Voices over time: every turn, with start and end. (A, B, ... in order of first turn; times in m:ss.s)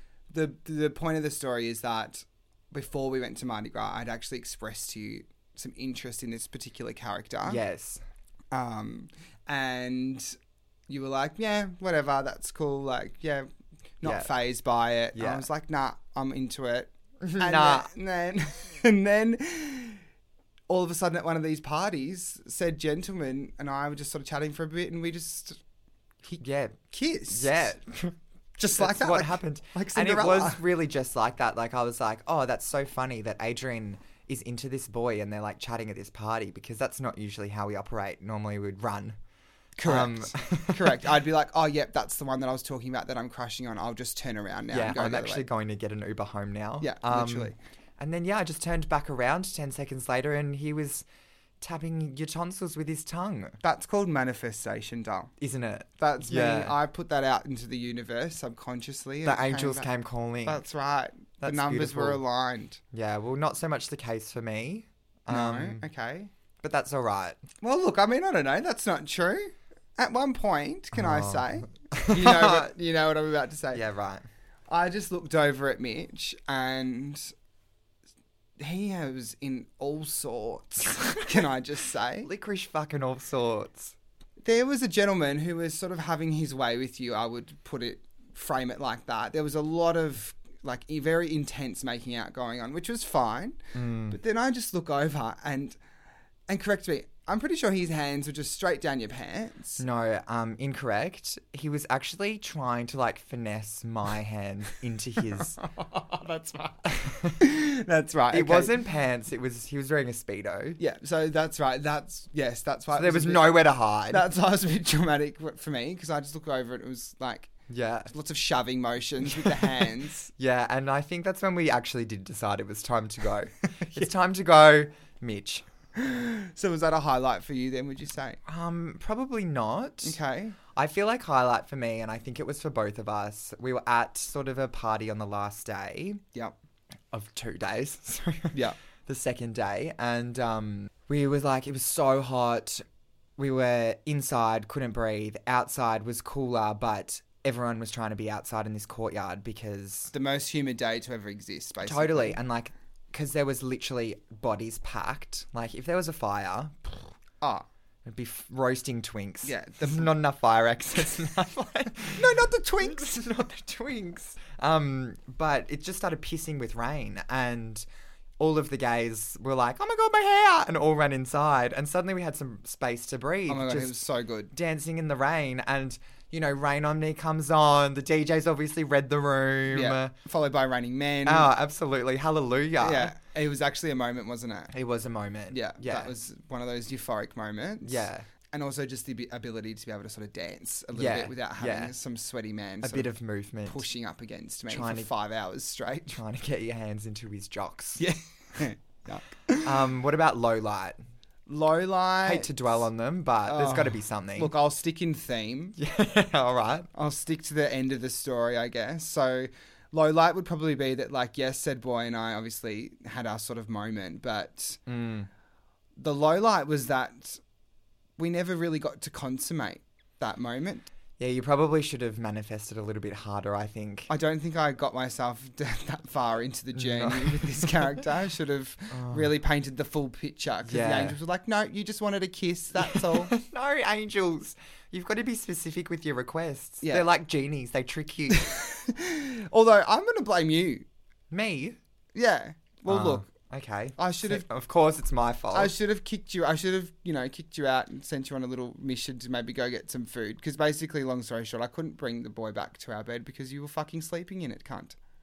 0:00.3-0:07.6 A
0:07.5-0:08.0 B
0:08.5-0:10.3 A
0:10.9-0:13.5 A
0:14.0-0:20.0 A
0:14.0-0:14.3 B
0:15.2-0:15.5 B
0:17.2-0:17.9 B
0:20.7-0:25.6 A
0:26.2-0:27.7 A
0:26.4-0:26.8 B
0:27.3-0:28.2 B
0:28.6-0:30.6 A
0:28.8-0:39.2 B
0:39.8-0:45.4 A
0:39.8-0:41.0 B
0:44.7-0:51.0 B
0:46.8-0:47.6 A
0:51.6-0:53.6 B
0:53.6-0:55.3 A
0:55.4-0:56.8 B
0:56.0-0:59.9 A
0:59.2-1:00.6 B
1:00.5-1:02.8 A
1:01.4-1:02.2 B
1:02.9-1:05.8 B
1:05.3-1:06.3 A
1:06.6-1:07.4 B
1:07.6-1:13.8 A
1:10.9-1:12.7 B
1:13.7-1:14.3 B
1:14.7-1:17.3 A
1:18.6-1:22.3 A
1:22.2-1:24.0 B
1:24.4-1:35.8 A
1:33.7-1:34.2 B
1:36.5-1:39.8 A
1:39.8-1:45.6 B
1:45.4-1:48.7 A
1:46.9-1:47.4 B
1:48.3-1:50.8 B
1:50.8-1:57.5 A
1:52.9-1:54.2 B
1:57.7-1:58.1 B
1:58.1-2:00.3 A
1:59.4-1:59.8 B
2:00.4-2:05.7 B
2:06.0-2:08.4 A
2:08.4-2:10.2 B
2:10.0-2:10.6 A
2:10.8-2:16.2 B
2:17.1-2:22.8 B
2:18.5-2:18.8 A
2:23.4-2:30.1 B
2:30.1-2:32.4 A
2:31.8-2:37.1 B
2:37.4-2:37.7 A
2:38.1-2:42.3 B
2:39.4-2:40.1 A
2:42.1-2:43.3 A
2:42.8-2:47.8 B
2:48.4-2:54.0 B
2:53.5-2:54.5 A
2:54.5-3:00.1 B
2:59.7-3:01.5 A
3:01.2-3:03.2 B
3:02.8-3:04.7 A
3:04.7-3:06.1 B
3:05.5-3:13.1 A
3:07.8-3:08.3 B
3:10.9-3:11.9 B
3:12.8-3:13.8 B
3:13.7-3:16.2 A
3:14.7-3:15.1 B
3:16.1-3:18.1 B
3:18.0-3:19.8 A
3:19.6-3:21.0 B
3:21.5-3:22.8 A
3:22.2-3:24.5 B
3:23.5-3:25.8 A
3:25.8-3:26.9 B
3:26.9-3:34.8 A
3:34.9-3:35.3 B
3:36.0-3:37.4 A
3:38.2-3:40.9 A
3:41.2-3:44.1 B
3:44.1-3:53.3 A
3:46.8-3:47.8 B
3:48.9-3:49.3 B
3:50.6-3:51.2 B
3:52.8-3:58.5 B
3:58.3-4:00.9 A
4:01.3-4:01.8 B
4:02.1-4:03.3 A
4:02.9-4:05.7 B
4:04.0-4:04.4 A
4:05.5-4:15.0 A